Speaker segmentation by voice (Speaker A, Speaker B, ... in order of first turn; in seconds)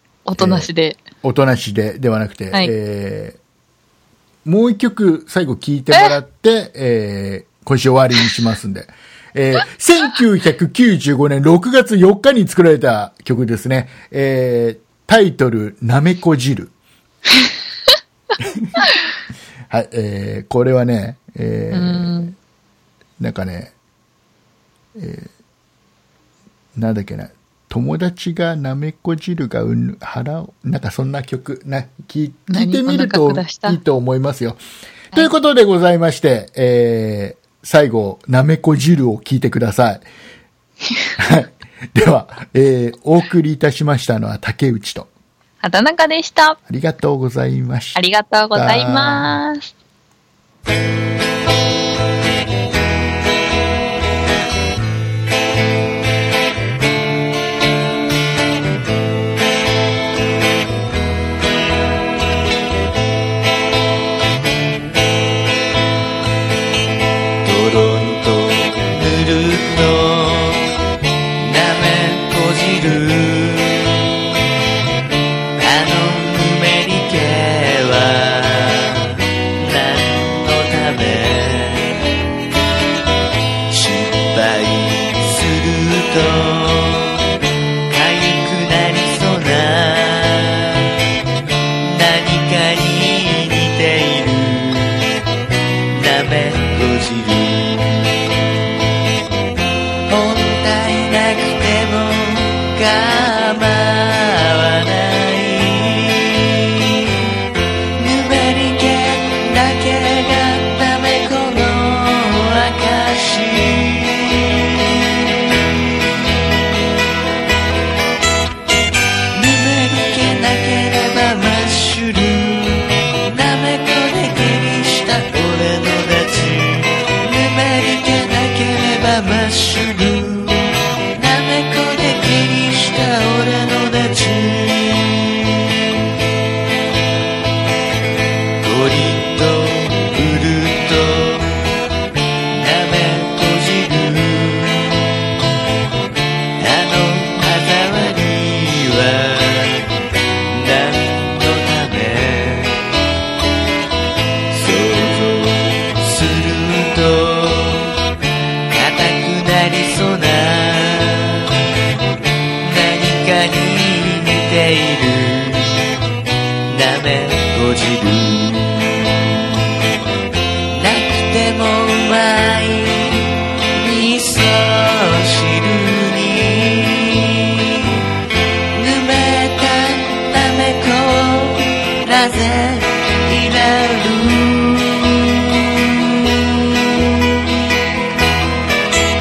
Speaker A: 0.3-1.0, 21.7-22.3, 32.5-33.8, 45.6-46.6, 48.0-49.7
Speaker B: 0.4-0.7, 1.2-3.4, 4.5-16.7, 18.4-18.7, 19.7-22.3, 23.2-23.7, 25.0-25.3, 26.8-34.6, 35.1-40.0, 41.2-45.1, 46.7-48.0, 48.5-49.3
Speaker C: 67.4-70.8, 71.4-74.1, 75.6-82.1, 83.7-87.3, 87.9-90.9, 91.8-95.2, 95.9-98.3, 100.1-107.1, 108.0-116.3, 119.3-135.8, 138.6-141.6, 142.5-145.2, 146.6-149.9, 150.5-152.9, 154.5-158.0, 158.7-161.7, 162.6-165.9, 166.7-169.8, 170.7-178.0, 178.7-188.0